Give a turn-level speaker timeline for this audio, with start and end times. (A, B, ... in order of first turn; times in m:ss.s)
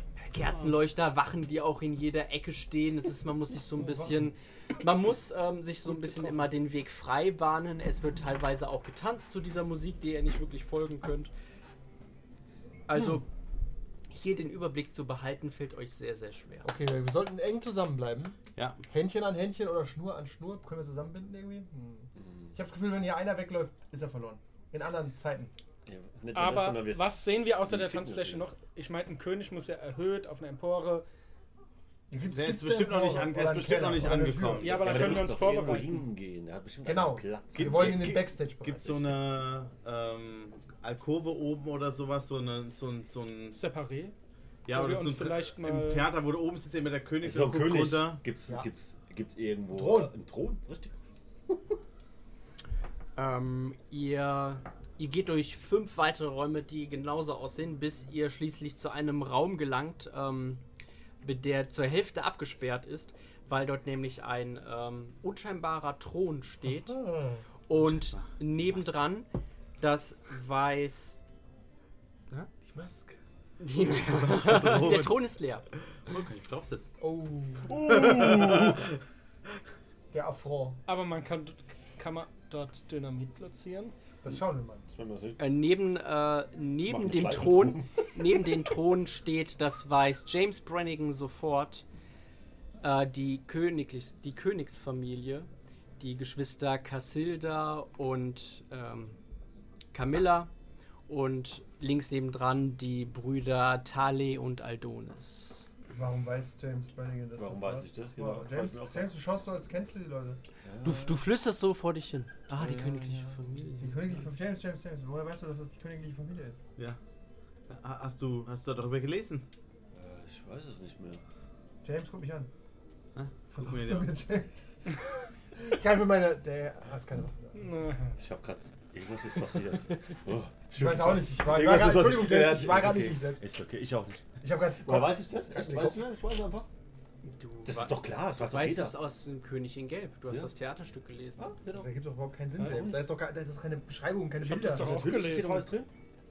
0:00.2-0:11.3 A
0:03.8-0:04.2 B
0:12.9-0:13.2 A
0:14.1-0:16.7 A
0:16.6-0:18.4 B
0:18.6-0:18.8 C
0:18.9-0:25.5 B
0:25.9-0:28.5 D
0:26.3-0:31.0 E
0:32.1-0:35.1 B
0:32.3-0:35.2 C
0:34.6-0:36.0 E
0:34.6-0:38.1 D
0:36.8-0:39.2 B
0:37.5-0:43.6 C
0:43.5-0:44.1 E
0:44.7-0:48.2 C
0:44.7-0:46.1 E
0:47.2-0:51.0 D
0:49.7-0:50.1 B
0:53.2-1:00.6 A
1:01.2-1:07.0 A
1:06.7-1:07.4 B
1:07.7-1:09.3 A
1:07.7-1:08.9 C
1:09.8-1:11.2 A
1:12.6-1:13.2 C
1:13.6-1:15.7 A
1:13.8-1:15.2 C
1:16.1-1:16.9 C
1:17.0-1:17.8 B
1:17.7-1:18.8 D
1:17.8-1:18.9 C
1:20.1-1:20.8 B
1:20.9-1:23.9 E
1:24.2-1:24.9 B
1:24.9-1:25.4 D
1:25.4-1:31.8 A
1:26.9-1:27.9 D
1:32.8-1:35.5 A
1:36.0-1:39.2 A
1:39.9-1:40.5 A
1:41.1-1:45.7 A
1:45.9-1:50.4 B
1:47.4-1:49.1 D
1:50.6-1:51.2 D
1:50.8-1:54.2 A
1:52.6-1:53.4 D
1:53.8-1:56.6 B
1:57.7-1:59.4 C
1:59.9-2:01.2 D
2:01.8-2:02.5 B
2:03.1-2:04.1 C
2:03.5-2:07.7 B
2:07.6-2:08.2 E
2:08.2-2:14.2 D
2:10.7-2:13.4 B
2:14.4-2:16.1 B
2:14.8-2:16.7 D
2:17.2-2:21.5 A
2:17.6-2:19.0 D
2:21.4-2:21.9 D
2:21.7-2:25.4 B
2:22.6-2:23.1 D
2:24.4-2:25.7 E
2:24.5-2:25.9 D